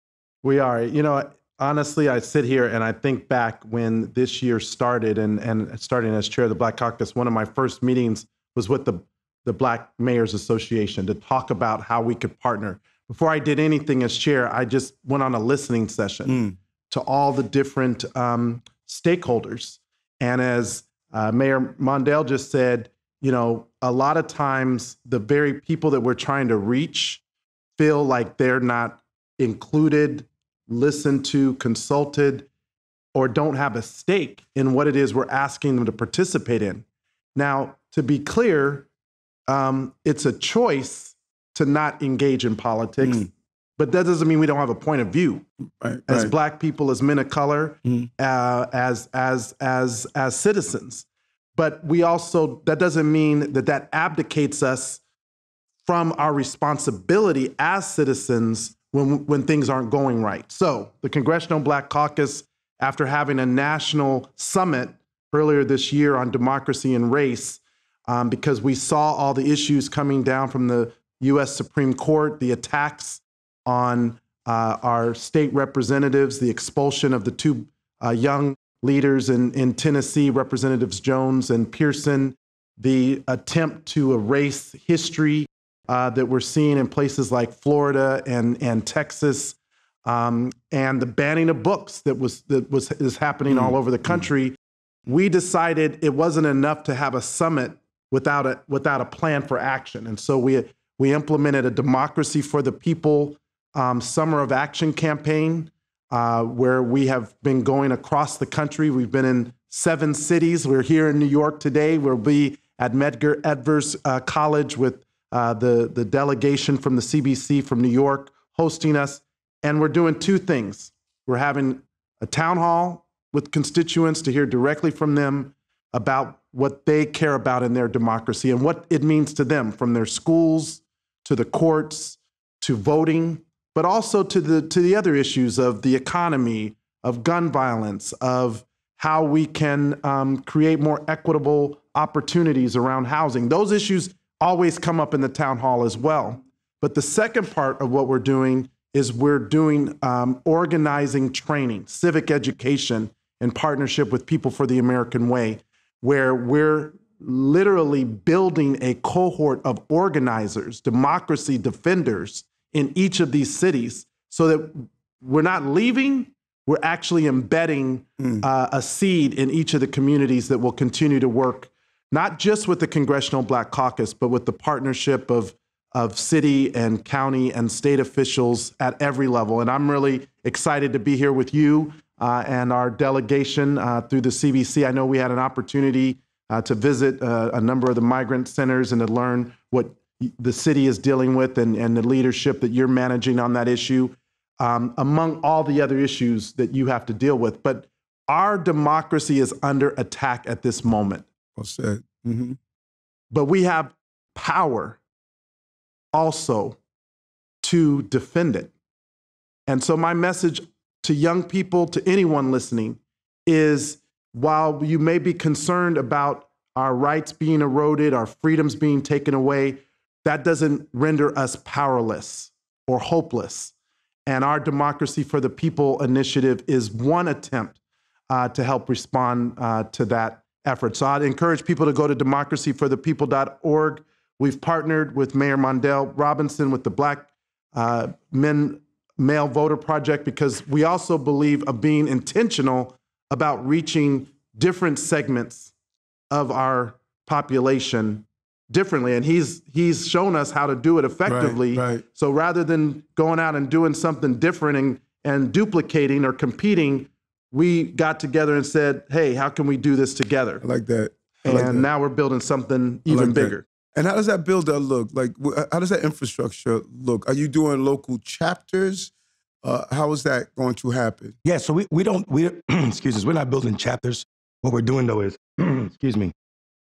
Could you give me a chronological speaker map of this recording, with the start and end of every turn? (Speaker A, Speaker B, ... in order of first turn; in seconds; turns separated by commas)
Speaker A: 0.4-27.2, Speaker B: 16.2-16.5, Speaker A: 27.8-32.5, Speaker A: 33.1-36.8, Speaker A: 37.4-38.9, Speaker A: 39.5-45.5, Speaker B: 45.8-46.3, Speaker A: 46.1-55.0, Speaker A: 55.8-94.5, Speaker B: 93.5-94.2, Speaker A: 95.1-201.2, Speaker B: 168.2-168.4, Speaker B: 201.6-202.6, Speaker A: 203.3-205.0, Speaker A: 206.1-206.8, Speaker A: 207.6-208.7, Speaker A: 209.7-223.7, Speaker A: 224.3-227.8, Speaker A: 228.3-245.7, Speaker A: 246.3-260.6, Speaker B: 251.2-252.0, Speaker B: 260.6-261.8, Speaker A: 261.4-263.6, Speaker B: 263.1-269.1, Speaker B: 269.6-271.3, Speaker C: 271.4-276.3